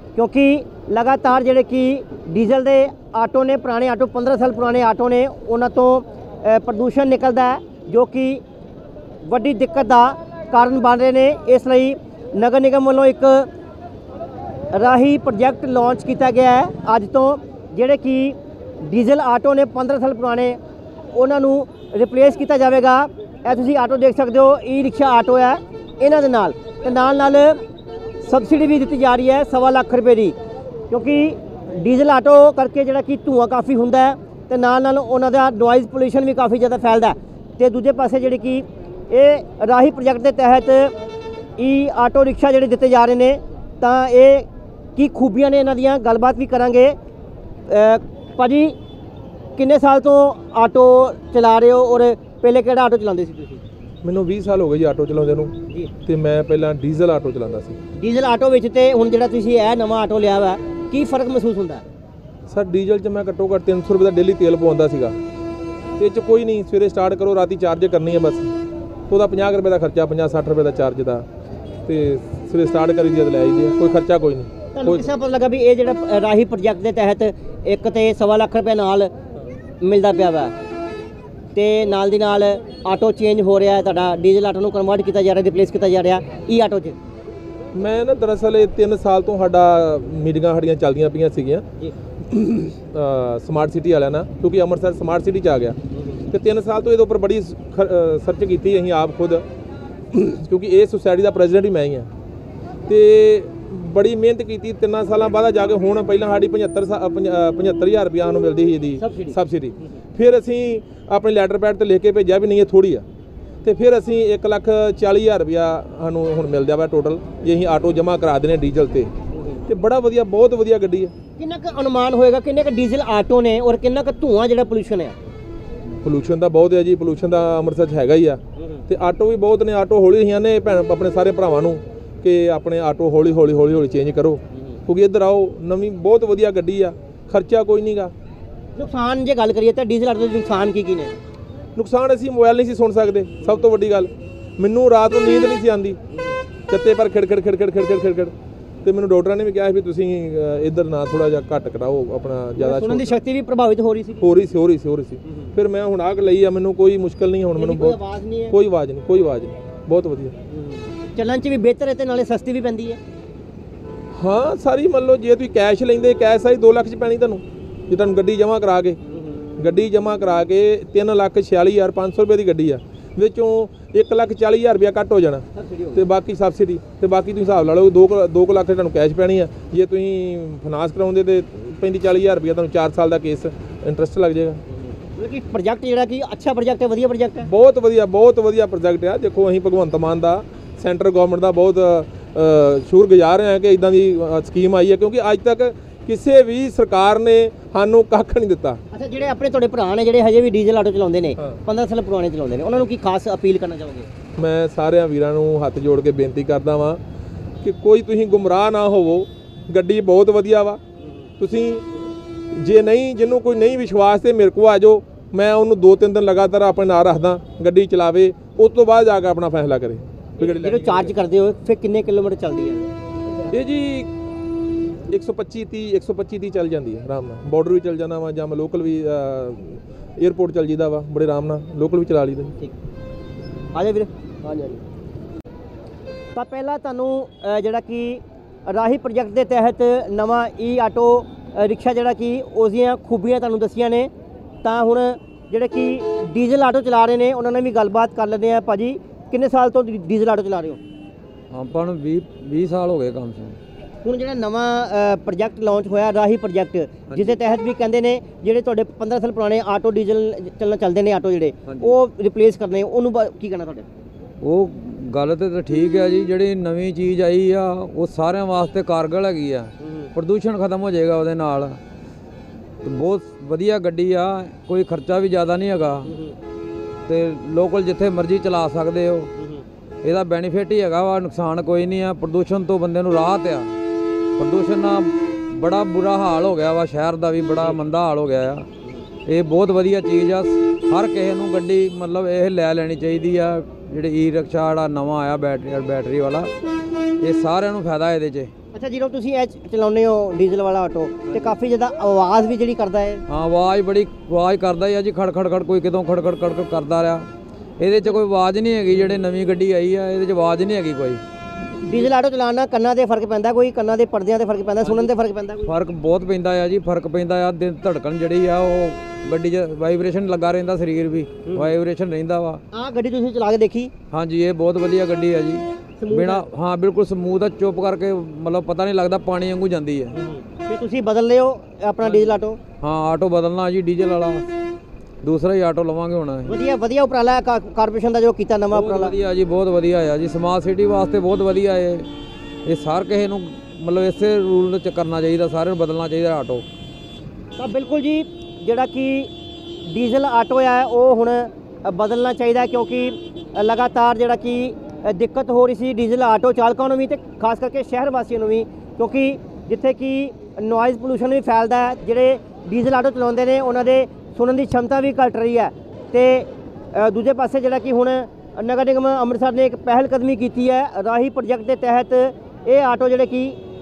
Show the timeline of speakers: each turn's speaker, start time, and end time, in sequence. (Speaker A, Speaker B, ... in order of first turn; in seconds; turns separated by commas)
Speaker A: 0.1-8.4, Speaker A: 9.2-13.5, Speaker A: 14.7-20.6, Speaker A: 21.1-27.6, Speaker A: 28.2-30.4, Speaker A: 30.9-40.9, Speaker A: 41.6-47.0, Speaker A: 47.7-48.8, Speaker A: 49.6-53.6, Speaker B: 54.0-55.5, Speaker B: 56.1-57.8, Speaker A: 58.0-61.9, Speaker B: 62.5-65.2, Speaker B: 66.0-68.5, Speaker B: 69.1-71.3, Speaker B: 71.9-75.1, Speaker A: 74.8-79.1, Speaker A: 79.8-80.5, Speaker A: 81.5-87.0, Speaker B: 87.8-91.7, Speaker B: 92.3-95.8, Speaker A: 95.9-96.2, Speaker B: 96.3-99.4, Speaker B: 100.1-102.1, Speaker B: 102.9-113.1, Speaker A: 109.0-109.9, Speaker B: 113.6-119.1, Speaker A: 119.3-119.6, Speaker B: 119.7-121.1, Speaker A: 121.4-125.2, Speaker B: 126.0-138.1, Speaker A: 128.6-128.8, Speaker A: 138.8-141.1, Speaker B: 141.8-146.0, Speaker B: 146.7-148.3, Speaker B: 148.8-153.2, Speaker A: 152.6-154.3, Speaker B: 154.2-158.0, Speaker A: 157.6-158.6, Speaker B: 158.5-160.4, Speaker A: 160.5-163.0, Speaker B: 164.2-169.0, Speaker A: 169.1-169.4, Speaker B: 169.6-184.6, Speaker A: 175.6-176.0, Speaker A: 185.2-187.5, Speaker B: 187.4-198.8, Speaker A: 198.9-204.1, Speaker B: 204.4-207.0, Speaker B: 207.6-210.8, Speaker B: 211.4-211.8, Speaker B: 212.5-221.1, Speaker A: 220.4-222.9, Speaker B: 223.5-224.1, Speaker B: 225.1-232.6, Speaker A: 233.7-234.8, Speaker A: 236.3-244.1, Speaker A: 244.6-250.8, Speaker C: 251.5-253.6, Speaker A: 254.0-263.9, Speaker C: 257.1-257.4, Speaker C: 261.7-262.0, Speaker C: 264.4-271.8, Speaker A: 269.8-270.1, Speaker C: 272.8-276.1, Speaker A: 276.1-276.4, Speaker C: 277.1-279.3, Speaker A: 279.4-279.6, Speaker C: 280.0-283.7, Speaker C: 284.4-288.7, Speaker C: 289.3-296.5, Speaker C: 297.2-298.5, Speaker A: 298.7-303.2, Speaker C: 303.3-307.3, Speaker C: 307.8-311.2, Speaker A: 311.8-315.7, Speaker C: 315.6-322.6, Speaker A: 322.7-323.9, Speaker C: 324.1-330.2, Speaker A: 326.0-326.4, Speaker A: 330.1-332.6, Speaker C: 332.8-334.4, Speaker C: 335.2-336.5, Speaker A: 336.5-339.1, Speaker C: 338.7-342.1, Speaker C: 342.7-346.7, Speaker A: 347.6-349.3, Speaker A: 349.9-373.6